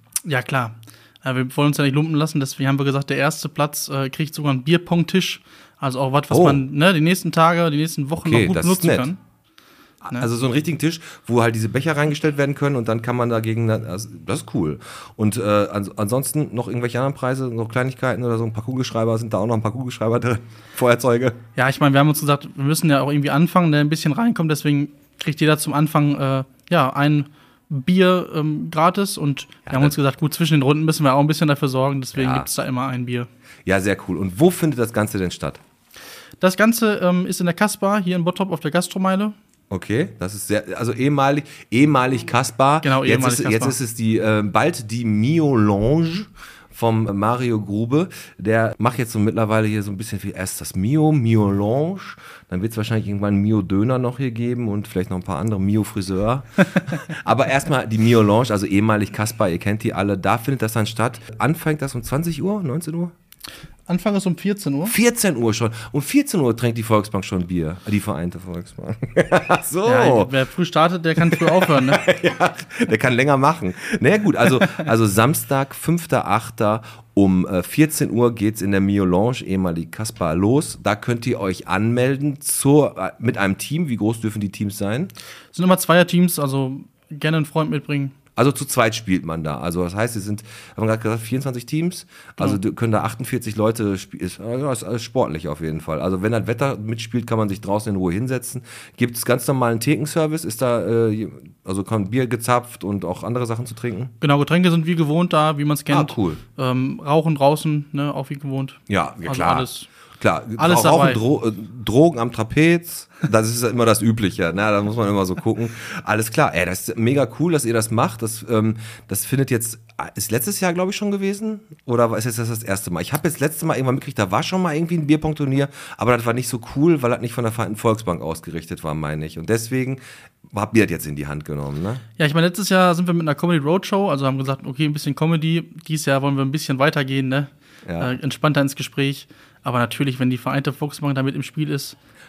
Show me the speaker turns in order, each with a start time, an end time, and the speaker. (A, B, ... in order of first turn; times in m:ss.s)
0:00.2-0:09.2 A
0:06.3-0:06.6 B
0:08.2-0:09.1 B
0:10.0-0:21.4 B
0:21.6-0:33.3 A
0:29.7-0:29.9 B
0:32.1-0:32.5 B
0:33.7-0:35.6 B
0:36.4-0:39.4 A
0:39.7-1:03.1 B
0:42.8-0:43.8 A
1:03.9-1:05.0 A
1:04.9-1:10.3 B
1:09.8-1:12.0 A
1:11.2-1:25.1 B
1:25.5-1:28.2 A
1:28.4-1:44.1 B
1:44.2-1:49.9 A
1:45.9-1:46.4 B
1:48.9-1:49.7 B
1:50.2-2:12.0 B
1:50.6-1:51.2 A
2:12.2-2:22.0 A
2:17.9-2:18.1 B